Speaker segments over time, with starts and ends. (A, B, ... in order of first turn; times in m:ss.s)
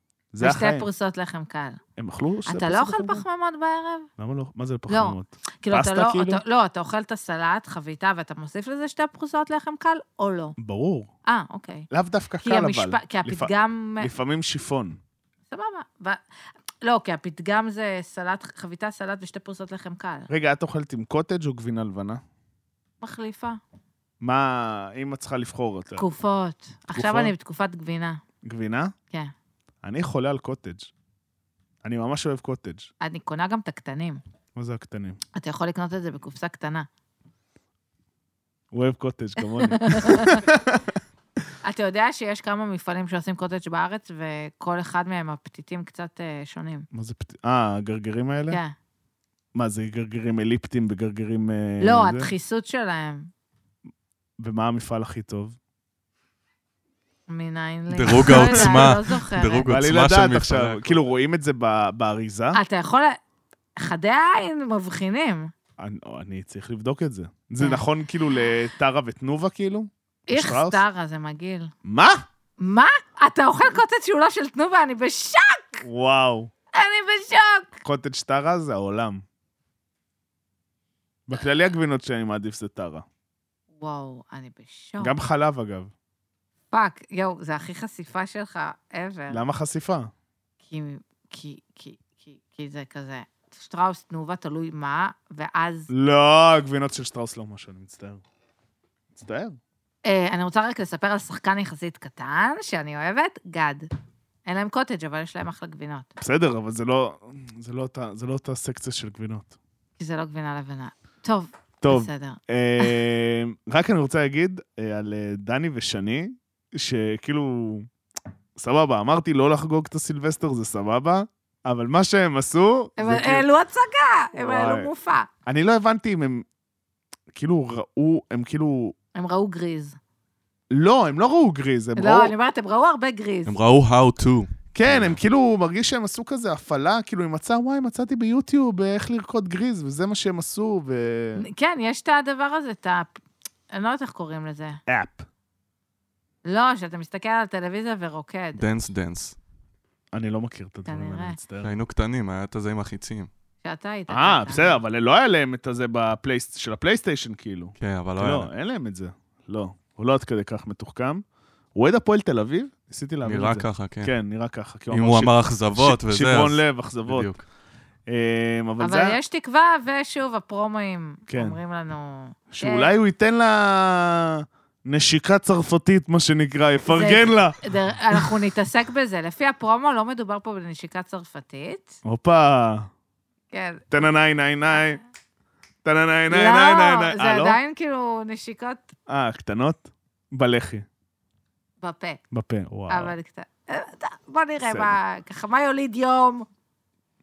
0:00.3-0:00.9 A
0:00.4-0:01.8 B
0:02.0-0:03.2 A
0:02.5-0:04.1 B
0:04.2-0:06.4 A
0:04.9-0:10.6 B
0:10.6-0:11.1 A
0:11.2-0:11.9 B
0:11.9-0:15.0 A
0:12.4-0:14.1 B
0:15.5-0:16.2 B
0:16.8-0:20.3 B
0:20.3-0:22.2 A
0:23.0-0:23.6 B
0:24.2-0:26.0 A
0:26.0-0:28.2 B
0:26.9-0:27.3 A
0:28.4-0:28.9 A
0:29.8-0:30.9 A
0:31.8-0:32.9 A
0:33.0-0:34.2 B
0:34.6-0:35.2 A
0:35.3-0:36.9 B
0:38.7-0:41.0 A
0:39.6-0:40.4 B
0:41.6-0:46.9 B
0:46.9-0:48.6 A
0:49.5-0:52.3 A
0:51.8-0:53.3 B
0:54.4-0:55.6 A
0:57.3-0:59.7 B
0:57.9-1:01.0 C
0:58.1-0:58.8 A
0:59.6-1:02.6 A
1:02.5-1:03.2 B
1:03.8-1:05.5 B
1:05.8-1:10.8 A
1:10.3-1:11.7 B
1:11.8-1:12.2 A
1:12.6-1:15.8 B
1:15.8-1:16.5 A
1:16.7-1:17.8 B
1:17.8-1:19.2 A
1:21.3-1:23.0 A
1:23.8-1:25.2 B
1:25.0-1:25.9 A
1:26.7-1:29.4 B
1:29.3-1:30.1 A
1:30.6-1:35.9 B
1:35.9-1:38.2 A
1:39.1-1:39.6 A
1:40.0-1:43.9 B
1:44.4-1:46.1 B
1:46.2-1:49.5 A
1:50.0-1:53.0 B
1:51.8-1:57.9 A
1:58.6-2:03.4 A
2:03.0-2:05.3 B
2:04.4-2:04.9 A
2:05.4-2:06.4 A
2:07.3-2:08.9 A
2:09.1-2:10.0 B
2:10.7-2:12.3 A
2:12.0-2:13.5 B
2:13.4-2:15.2 C
2:14.7-2:21.4 A
2:21.4-2:23.1 B
2:23.7-2:24.8 B
2:24.9-2:25.2 A
2:26.4-2:28.6 B
2:28.6-2:29.4 C
2:30.1-2:31.7 A
2:30.8-2:31.4 B
2:31.6-2:33.3 C
2:33.6-2:34.8 B
2:34.1-2:41.2 A
2:37.8-2:38.5 C
2:41.7-2:47.3 A
2:43.2-2:44.1 C
2:44.9-2:47.4 C
2:48.1-2:49.2 A
2:48.8-2:52.9 B
2:51.3-2:51.6 A
2:52.5-2:57.6 A
2:56.9-3:02.0 B
2:58.1-2:58.4 A
3:02.0-3:02.9 A
3:03.5-3:04.0 B
3:03.9-3:05.0 A
3:05.8-3:07.6 A
3:06.3-3:08.9 B
3:09.1-3:10.8 A
3:11.8-3:12.2 B
3:12.3-3:13.1 A
3:12.9-3:16.4 B
3:14.6-3:14.9 A